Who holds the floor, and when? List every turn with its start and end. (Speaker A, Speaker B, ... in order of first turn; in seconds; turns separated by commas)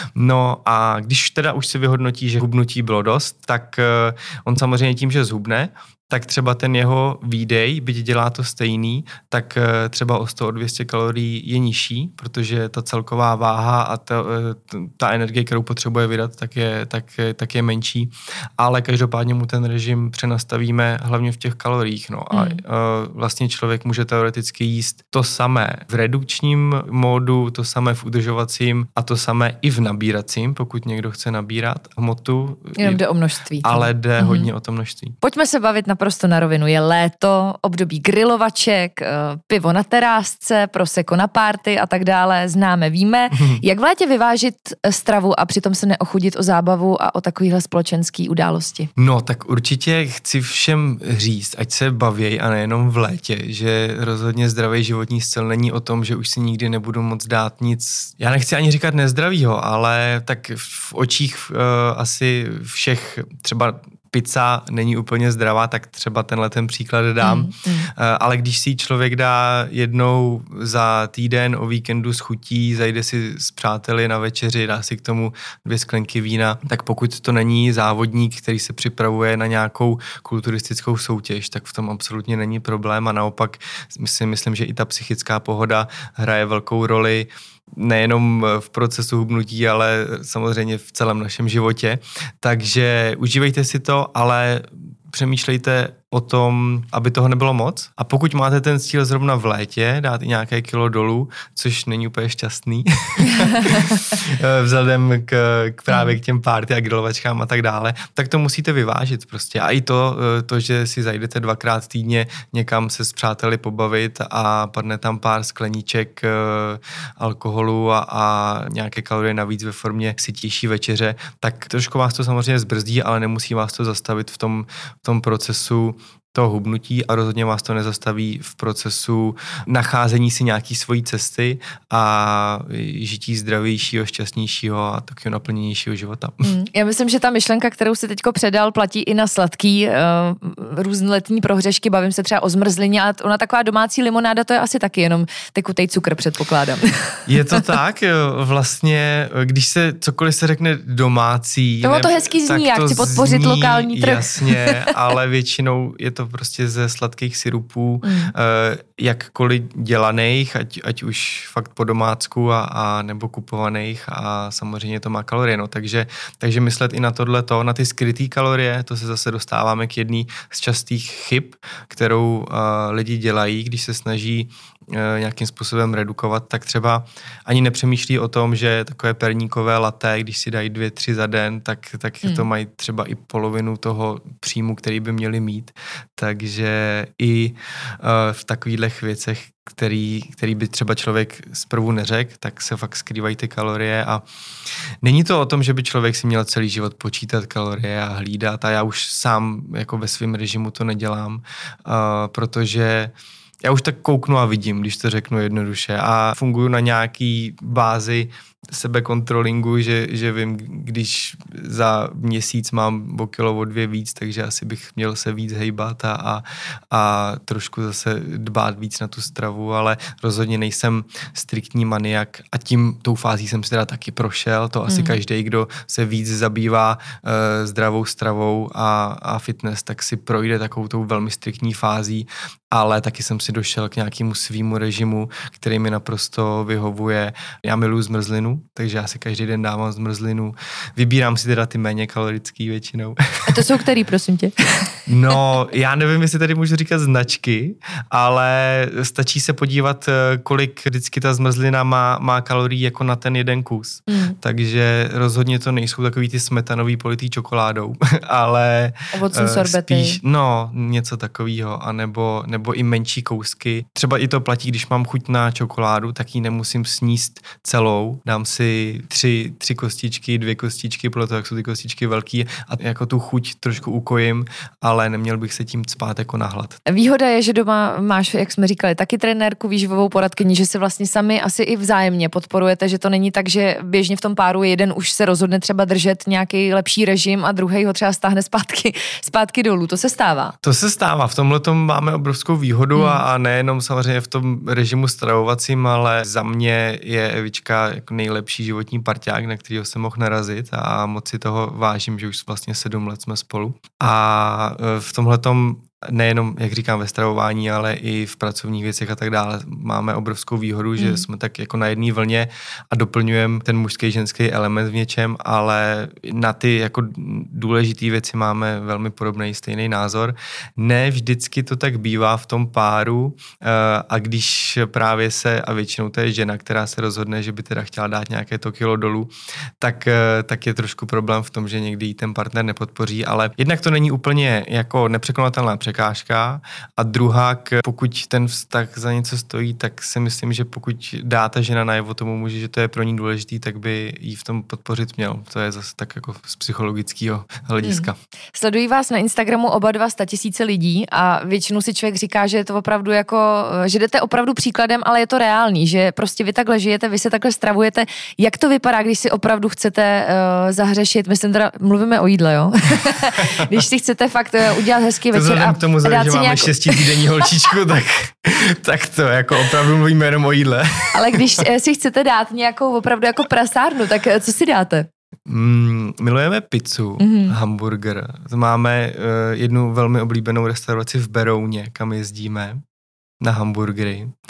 Speaker A: 0.2-33.0, Speaker B: 22.3-22.6, Speaker B: 32.8-34.5, Speaker A: 33.6-35.1, Speaker B: 35.2-48.9, Speaker A: 43.3-43.6, Speaker A: 49.0-136.5, Speaker B: 67.2-67.9, Speaker B: 103.4-103.7, Speaker B: 105.9-106.2, Speaker B: 136.4-147.2, Speaker A: 147.3-194.2, Speaker B: 151.8-154.9, Speaker B: 158.0-158.3, Speaker A: 195.0-243.7, Speaker B: 224.9-225.2, Speaker B: 243.5-245.0, Speaker A: 245.1-276.8, Speaker B: 254.1-254.4, Speaker B: 259.1-260.2, Speaker B: 276.9-290.6, Speaker A: 290.6-348.2, Speaker B: 292.9-293.2, Speaker B: 311.0-311.3, Speaker B: 347.8-367.5, Speaker A: 363.4-363.7, Speaker A: 365.3-371.6, Speaker B: 371.1-375.1, Speaker A: 375.5-382.8, Speaker B: 377.2-377.6, Speaker A: 383.4-384.3